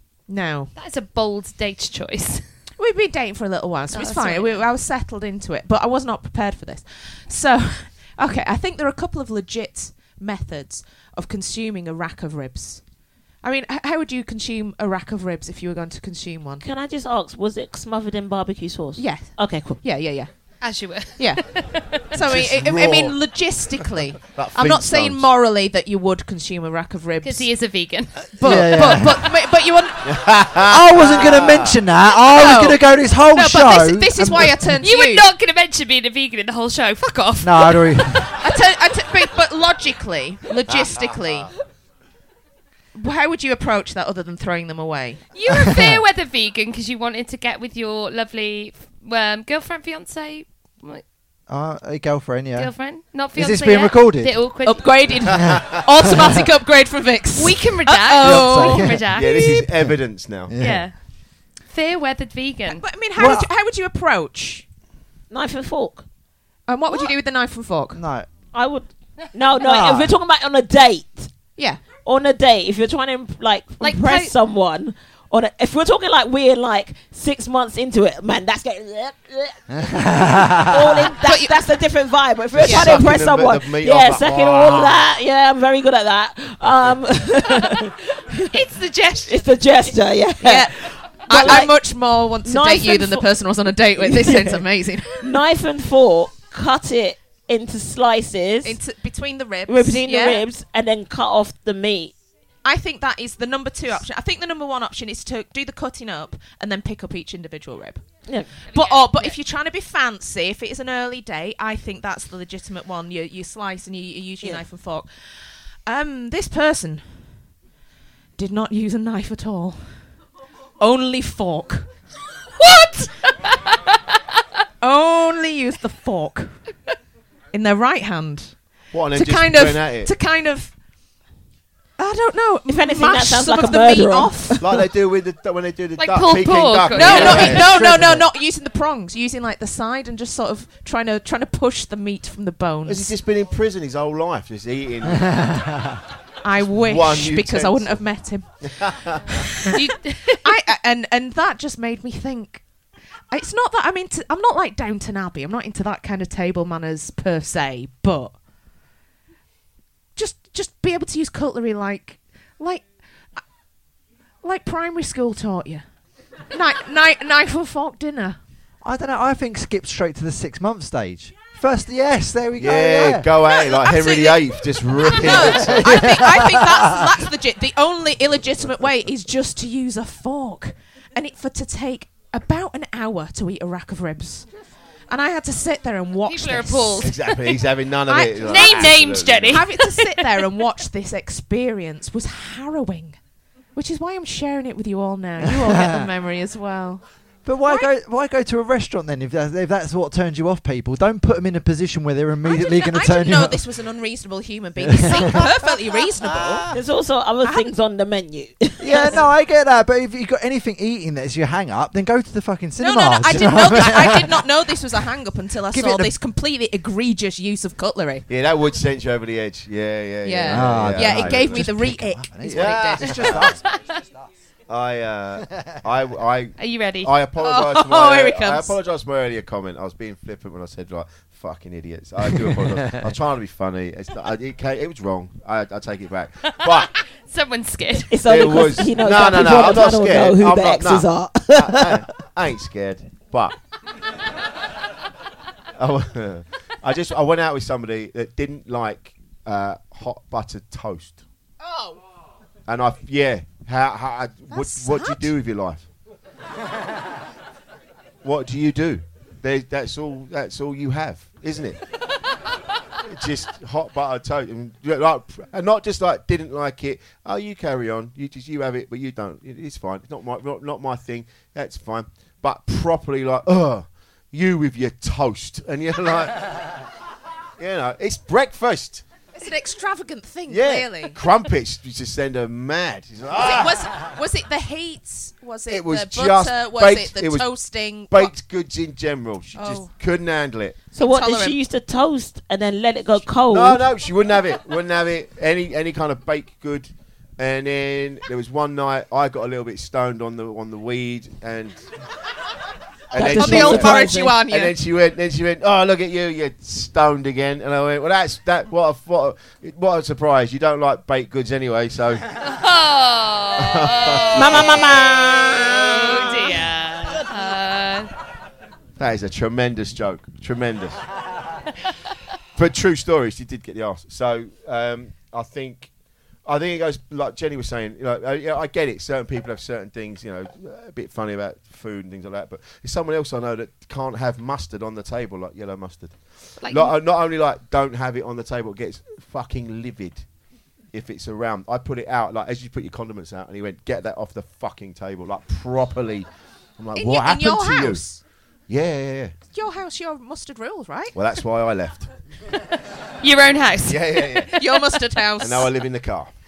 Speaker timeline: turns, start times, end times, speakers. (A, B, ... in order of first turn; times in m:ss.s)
0:00.3-0:00.7 A
0:00.8-0:02.4 B
0:02.8-0:12.8 A
0:03.9-0:04.6 B
0:13.4-0:16.6 A
0:16.6-0:19.8 C
0:19.0-0:20.3 A
0:20.6-0:22.0 B
0:21.2-0:21.4 A
0:22.1-0:27.5 A
0:22.2-0:23.2 D
0:24.2-0:25.3 D
0:27.2-0:28.2 B
0:28.4-0:30.2 A
0:28.4-0:29.2 E
0:30.0-0:31.8 D
0:30.7-0:34.7 E
0:32.3-0:35.3 A
0:34.8-0:38.3 B
0:37.4-0:38.3 E
0:38.4-0:41.5 A
0:40.7-0:41.5 D
0:42.9-0:45.2 A
0:45.3-0:51.0 B
0:45.5-0:46.0 E
0:51.5-0:52.7 E
0:52.6-0:55.0 B
0:53.3-0:54.4 E
0:54.6-0:58.9 A
0:55.5-0:55.8 D
0:57.4-0:59.6 B
0:58.2-0:59.0 E
0:59.1-1:00.6 D
1:00.5-1:00.9 E
1:00.6-1:00.9 B
1:01.7-1:02.8 B
1:02.7-1:04.6 A
1:03.2-1:03.5 E
1:05.3-1:06.0 C
1:06.7-1:08.0 A
1:07.9-1:08.3 E
1:08.5-1:11.3 C
1:09.6-1:10.1 E
1:11.6-1:11.8 A
1:12.0-1:19.9 C
1:13.8-1:14.3 B
1:19.7-1:21.1 E
1:20.6-1:28.6 C
1:21.2-1:21.6 A
1:22.5-1:25.1 D
1:22.6-1:23.0 A
1:28.5-1:30.0 B
1:29.3-1:31.8 C
1:30.4-1:35.3 A
1:32.4-1:33.3 C
1:34.0-1:34.6 C
1:35.2-1:38.8 C
1:38.6-1:40.4 A
1:39.7-1:42.1 C
1:42.6-1:48.0 A
1:48.3-1:48.6 C
1:48.7-1:49.4 B
1:48.7-1:57.4 A
1:58.4-2:00.1 A
2:00.8-2:01.9 A
2:02.6-2:03.1 B
2:04.8-2:06.6 A
2:07.5-2:08.6 A
2:08.9-2:10.1 D
2:09.1-2:10.7 A
2:12.0-2:14.6 A
2:12.7-2:14.8 C
2:14.6-2:17.7 D
2:16.0-2:17.6 B
2:16.9-2:23.1 A
2:17.5-2:18.3 E
2:22.9-2:25.4 D
2:25.1-2:26.0 E
2:26.4-2:32.6 A
2:26.7-2:28.0 D
2:28.6-2:29.2 D
2:29.7-2:30.4 B
2:33.3-2:38.4 A
2:40.2-2:43.4 A
2:44.4-2:45.8 A
2:46.5-2:48.4 A
2:48.8-2:53.3 E
2:52.6-2:56.0 D
2:53.4-3:04.5 A
2:55.4-2:57.1 E
3:05.1-3:07.2 A
3:06.3-3:07.4 B
3:07.0-3:09.6 D
3:08.1-3:09.0 A
3:08.4-3:10.4 B
3:09.5-3:13.2 A
3:13.8-3:17.0 A
3:15.5-3:16.1 E
3:17.4-3:23.6 E
3:22.4-3:26.7 A
3:24.8-3:25.5 E
3:26.7-3:29.2 C
3:27.4-3:27.7 A
3:28.8-3:34.4 E
3:32.8-3:38.2 A
3:35.7-3:36.1 E
3:38.3-3:41.7 D
3:40.2-3:43.5 A
3:40.5-3:43.6 E
3:42.5-3:43.6 D
3:44.7-3:56.9 D
3:46.6-3:47.1 B
3:47.4-3:48.8 A
3:57.3-3:58.1 B
3:58.1-4:02.1 C
3:58.2-4:03.6 D
4:05.8-4:11.2 D
4:12.7-4:15.9 D
4:14.5-4:15.4 A
4:18.2-4:21.8 D
4:23.1-4:36.5 D
4:37.6-4:39.0 D
4:39.4-4:41.2 A
4:40.5-4:43.9 D
4:43.3-4:48.4 A
4:45.7-4:47.5 D
4:48.1-4:50.8 D
4:49.5-4:49.9 A
4:50.9-4:53.8 C
4:51.0-4:51.6 A
4:53.5-5:01.8 D
5:03.1-5:12.2 D
5:03.1-5:04.4 C
5:03.3-5:04.8 A
5:12.4-5:15.1 B
5:13.6-5:14.8 D
5:14.3-5:16.3 C
5:15.7-5:18.1 B
5:19.0-5:21.0 D
5:22.6-5:25.9 D
5:26.4-5:40.2 D
5:36.6-5:36.9 B
5:40.9-5:46.3 D
5:46.8-5:48.0 D
5:46.9-5:48.2 A
5:48.7-5:49.3 D
5:49.5-5:51.2 A
5:51.1-5:52.1 D
5:53.2-5:54.6 B
5:53.9-5:54.5 D
5:54.6-5:55.7 A
5:55.4-5:56.3 D